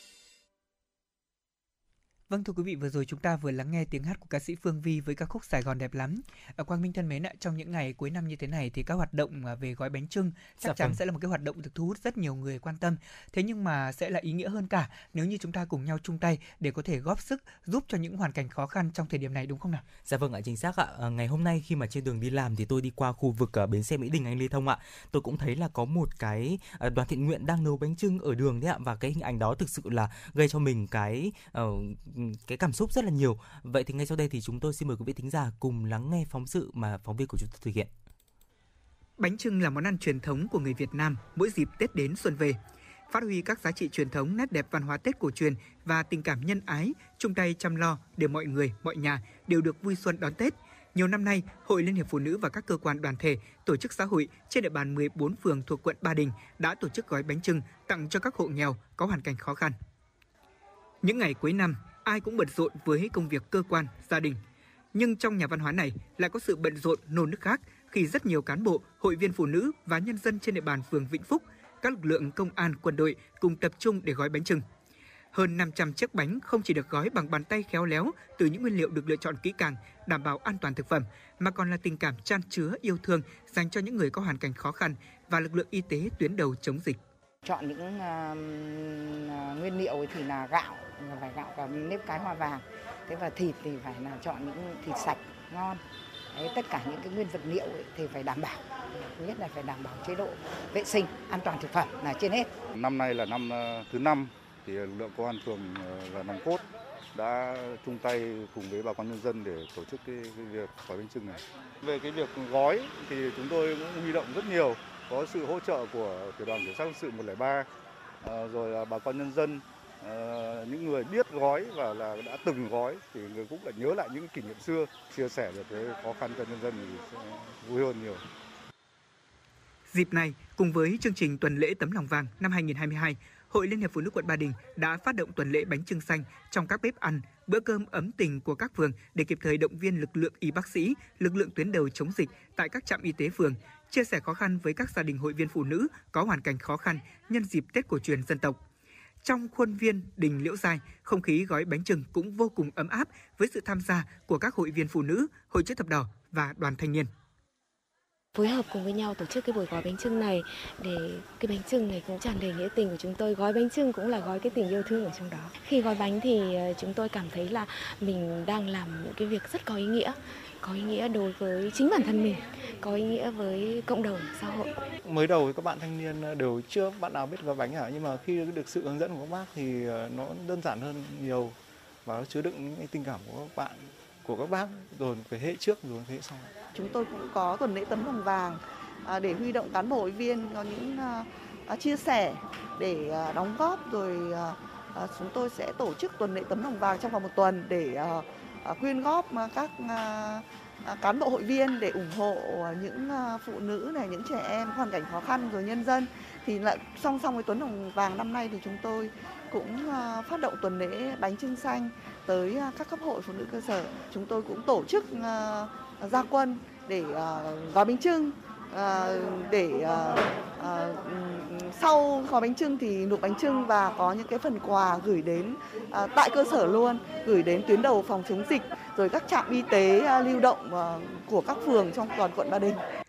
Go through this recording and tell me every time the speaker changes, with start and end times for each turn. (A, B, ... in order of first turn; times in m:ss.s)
0:02.3-0:19.8 A
0:10.6-0:11.0 B
0:20.0-0:37.9 B
0:39.2-0:59.8 A
1:01.0-1:04.4 A
1:04.9-1:14.6 A
1:15.3-1:27.0 A
1:27.4-1:35.8 C
1:36.3-1:42.5 C
1:42.7-1:57.7 D
1:58.2-2:08.2 D
2:09.9-2:28.6 A
2:29.2-2:37.1 A
2:38.4-2:54.7 E
2:55.0-3:06.6 F
3:06.7-3:52.8 G